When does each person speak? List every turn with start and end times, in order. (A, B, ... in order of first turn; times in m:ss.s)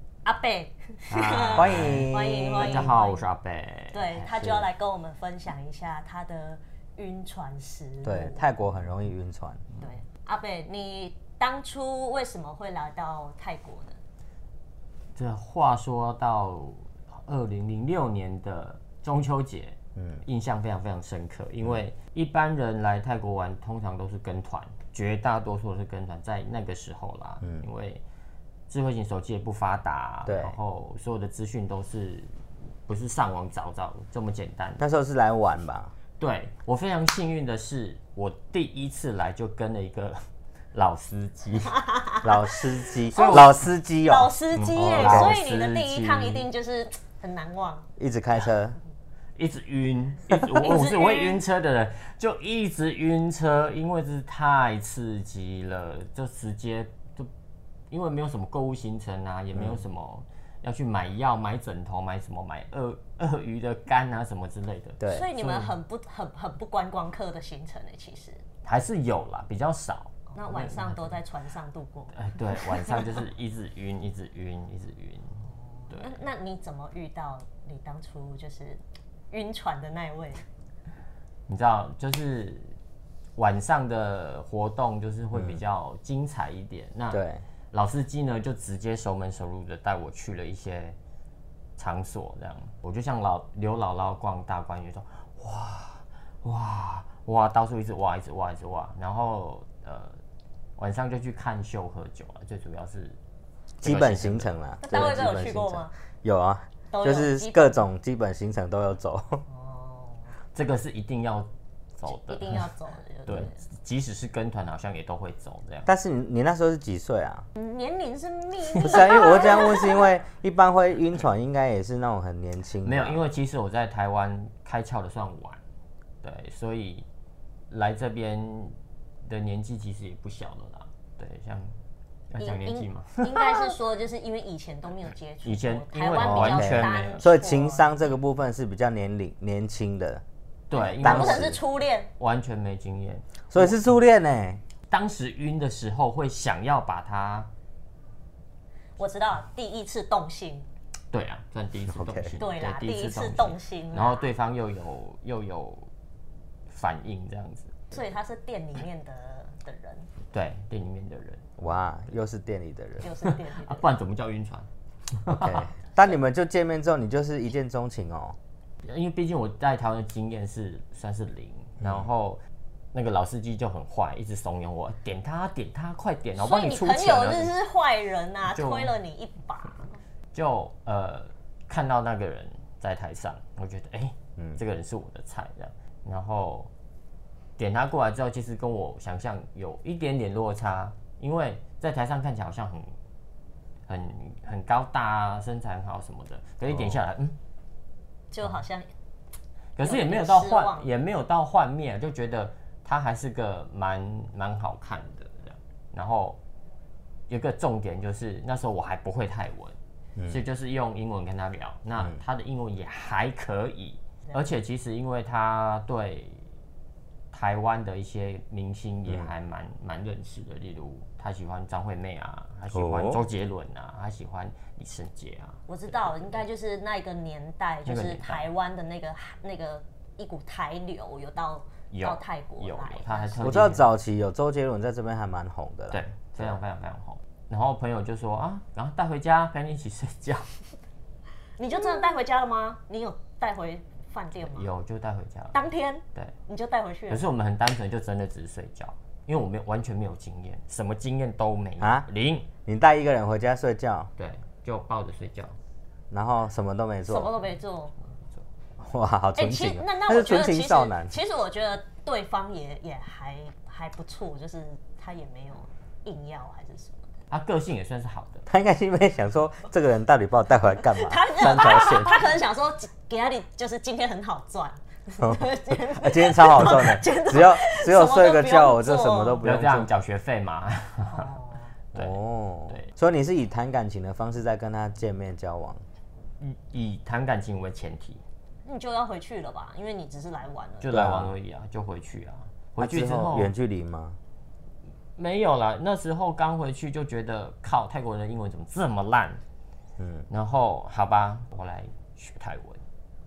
0:00.2-0:03.3 A
0:01.1-0:04.2 B
0:01.5-0:02.9 C
0:03.9-0:08.4 A
0:04.2-0:04.7 C
0:08.0-0:09.6 C
0:09.8-0:14.0 A
0:15.2-0:28.0 B
0:20.0-0:20.2 C
0:27.4-0:27.7 C
0:28.7-0:32.3 B
0:30.2-0:30.6 C
0:32.8-0:34.8 B
0:34.8-0:35.9 C
0:36.2-0:40.2 B
0:40.7-0:41.8 B
0:41.7-0:42.3 A
0:42.2-0:44.3 C
0:43.1-0:43.7 B
0:43.1-0:47.8 A
0:44.5-0:46.5 B
0:45.0-0:45.4 C
0:48.0-0:48.8 C
0:49.4-0:57.3 B
0:50.5-0:51.4 A
0:57.9-1:05.8 B
0:59.6-0:59.8 C
1:05.0-1:05.3 C
1:05.0-1:08.4 A
1:08.6-1:11.2 B
1:10.3-1:13.1 A
1:12.1-1:16.2 B
1:15.8-1:20.4 A
1:21.5-1:22.7 B
1:23.4-1:27.2 B
1:25.3-1:25.6 C
1:27.1-1:27.4 C
1:27.7-1:31.0 B
1:31.8-1:40.2 B
1:40.8-1:43.2 B
1:43.8-1:45.2 B
1:43.8-1:49.4 C
1:44.8-1:45.9 A
1:46.9-1:47.8 A
1:49.5-1:50.3 A
1:50.5-1:52.7 B
1:52.1-1:53.6 A
1:53.3-1:55.9 B
1:55.8-1:57.4 C
1:57.6-2:00.1 A
1:58.7-2:03.2 C
1:58.9-1:59.8 B
2:02.8-2:05.6 B
2:06.2-2:07.0 B
2:07.7-2:11.8 B
2:12.3-2:13.7 B
2:12.4-2:18.2 A
2:15.4-2:17.2 B
2:16.2-2:20.2 C
2:20.7-2:21.6 B
2:20.7-2:22.1 A
2:21.0-2:21.6 C
2:22.2-2:23.8 B
2:23.5-2:24.6 C
2:24.9-2:27.5 B
2:29.0-2:30.7 A
2:31.1-2:35.9 B
2:31.9-2:32.4 C
2:32.4-2:34.3 A
2:36.7-2:37.9 B
2:37.9-2:40.1 A
2:40.3-2:41.5 B
2:41.6-2:43.1 C
2:43.0-2:43.9 A
2:43.2-2:45.7 B
2:45.3-2:48.4 C
2:48.8-2:52.4 B
2:51.8-2:52.1 C
2:52.9-2:57.5 B
2:56.3-3:00.0 A
2:58.5-2:59.0 B
3:00.3-3:06.7 B
3:07.6-3:12.9 B
3:13.9-3:17.4 B
3:18.3-3:18.9 A
3:19.8-3:26.4 B
3:19.8-3:20.9 A
3:27.3-3:36.4 B
3:34.3-3:34.5 A
3:37.3-3:45.6 B
3:42.7-3:43.2 C
3:45.7-3:53.6 A
3:47.8-3:48.5 B
3:51.9-3:53.9 B
3:53.4-3:56.6 C
3:55.9-4:00.5 B
4:01.6-4:04.7 A
4:04.4-4:05.6 B
4:05.5-4:07.3 A
4:07.1-4:12.5 B
4:11.8-4:12.1 C
4:12.6-4:14.1 C
4:14.2-4:15.6 B
4:16.1-4:17.3 C
4:17.1-4:17.9 A
4:18.8-4:21.2 C
4:19.4-4:27.1 A
4:27.3-4:28.4 B
4:28.4-4:32.2 C
4:31.0-4:39.4 A
4:35.2-4:39.9 C
4:39.4-4:41.3 B
4:41.1-4:41.7 A
4:41.9-4:45.8 C
4:46.4-4:48.2 B
4:48.6-4:50.9 A
4:50.8-4:53.5 B
4:50.9-4:51.3 C
4:52.8-4:54.2 C
4:55.2-4:59.4 B
5:00.0-5:00.3 C
5:00.3-5:02.8 B